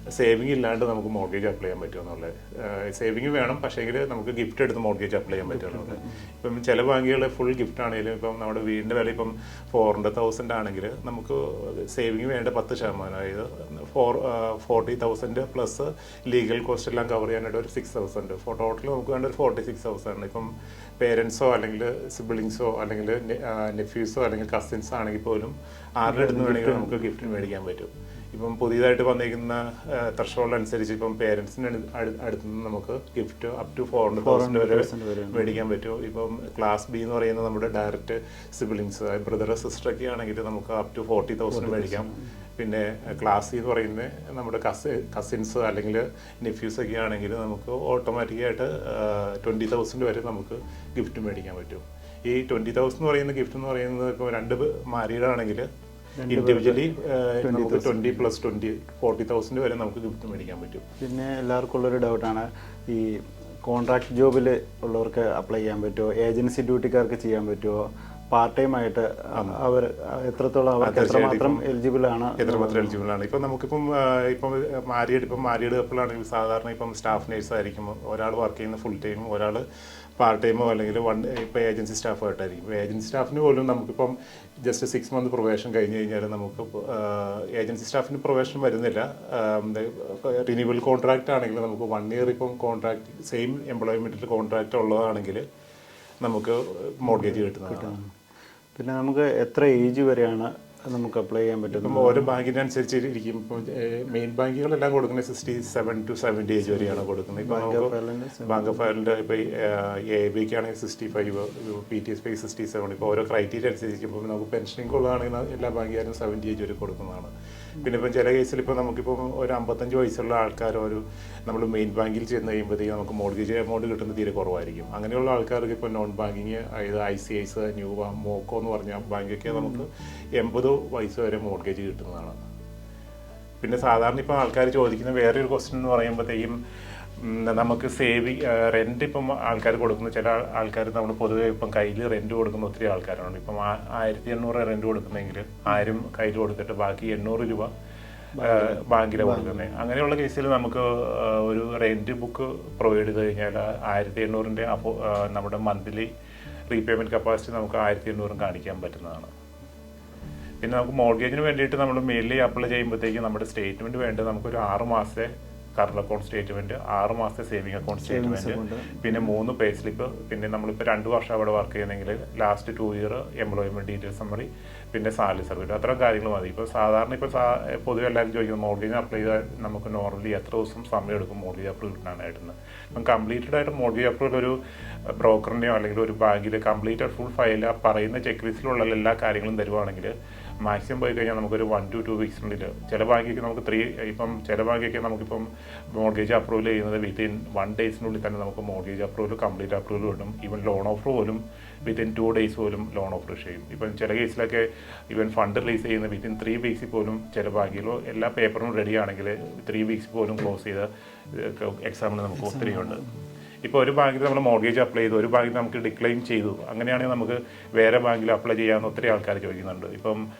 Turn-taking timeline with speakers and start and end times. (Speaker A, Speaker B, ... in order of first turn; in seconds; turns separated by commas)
Speaker A: 0.2-55.7, Speaker B: 5.5-6.2, Speaker B: 26.1-27.3, Speaker B: 34.2-35.6, Speaker B: 41.5-42.3, Speaker B: 56.2-56.9, Speaker A: 56.3-60.8, Speaker B: 57.4-58.3, Speaker B: 61.0-67.8, Speaker B: 68.3-73.0, Speaker A: 70.8-71.6, Speaker A: 72.4-79.6, Speaker A: 80.2-95.5, Speaker A: 96.2-98.0, Speaker B: 97.1-98.1, Speaker B: 98.8-102.3, Speaker A: 101.7-107.9, Speaker B: 106.7-108.8, Speaker A: 108.5-117.3, Speaker A: 117.8-132.4, Speaker B: 129.5-129.8, Speaker A: 133.6-136.6, Speaker A: 137.2-147.7, Speaker B: 148.3-149.8, Speaker A: 148.4-156.1, Speaker A: 156.7-159.3, Speaker A: 160.6-213.0, Speaker B: 168.0-169.3, Speaker B: 212.4-213.1, Speaker A: 213.6-220.2